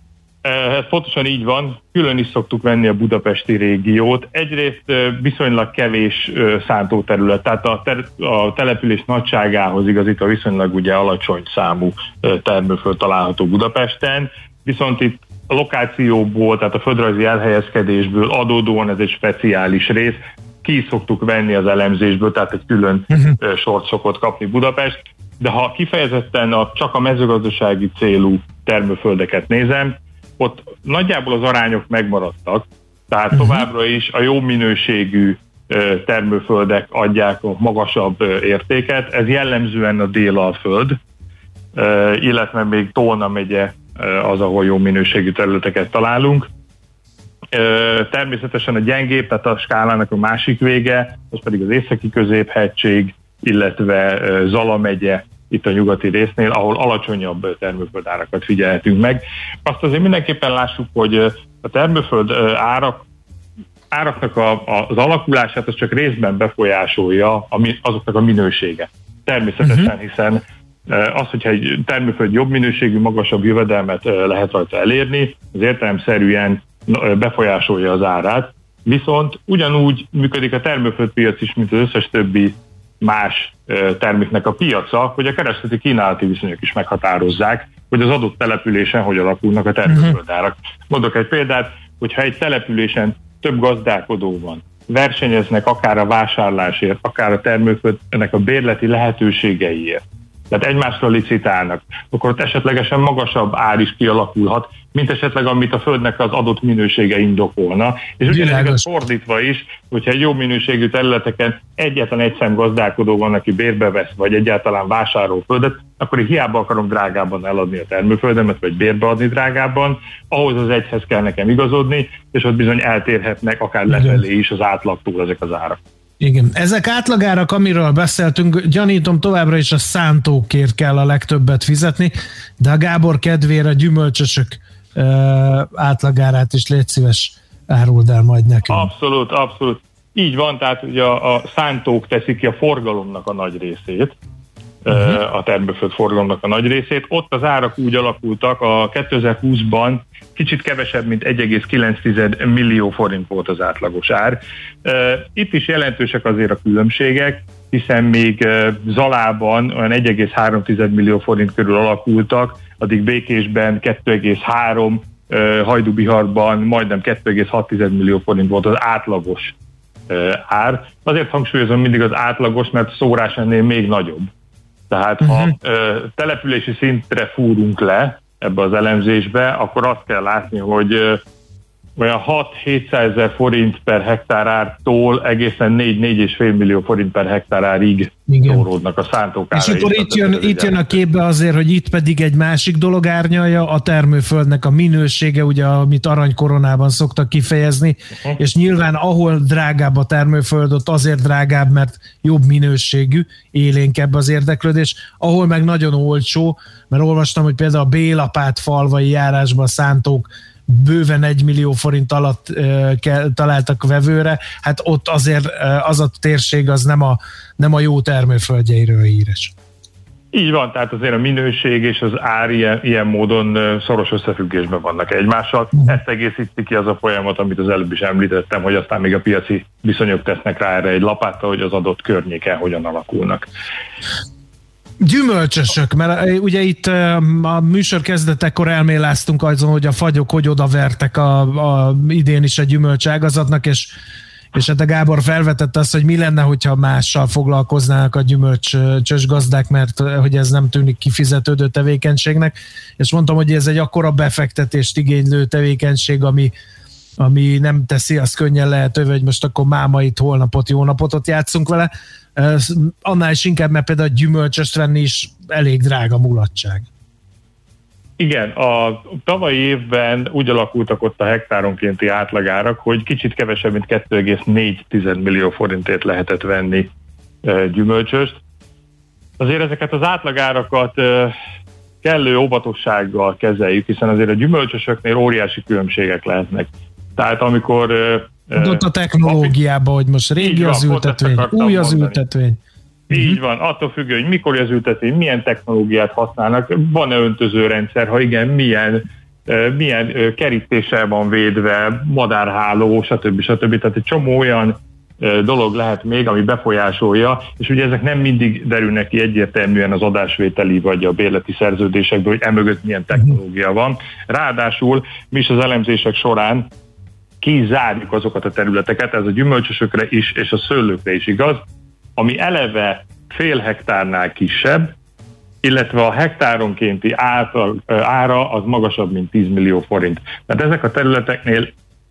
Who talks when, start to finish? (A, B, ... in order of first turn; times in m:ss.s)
0:00.4-0:41.0 A
0:33.3-0:33.6 B
0:41.8-0:46.5 A
0:47.5-1:03.0 A
1:03.9-2:05.8 A
1:09.6-1:09.9 B
1:29.9-1:30.2 B
1:48.3-1:48.8 B
2:03.9-2:04.2 B
2:06.2-2:18.9 B
2:18.7-2:24.2 A
2:24.9-2:49.5 A
2:24.9-2:25.2 B
2:50.1-2:54.3 A
2:54.9-3:01.2 A
2:55.2-2:55.6 B
3:02.0-3:11.0 A
3:08.3-3:08.7 B
3:09.5-3:39.5 B
3:40.3-3:53.5 A
3:55.0-4:03.9 B
4:04.5-4:16.5 B
4:17.2-4:26.9 B
4:28.2-4:36.9 A
4:37.4-4:38.4 A
4:39.4-4:41.4 A
4:42.0-4:49.5 A
4:48.5-4:52.6 B
4:50.4-4:52.2 A
4:53.1-5:16.7 A
4:53.1-4:53.4 B
5:17.4-5:21.6 A
5:22.2-5:24.9 A
5:25.6-5:31.7 A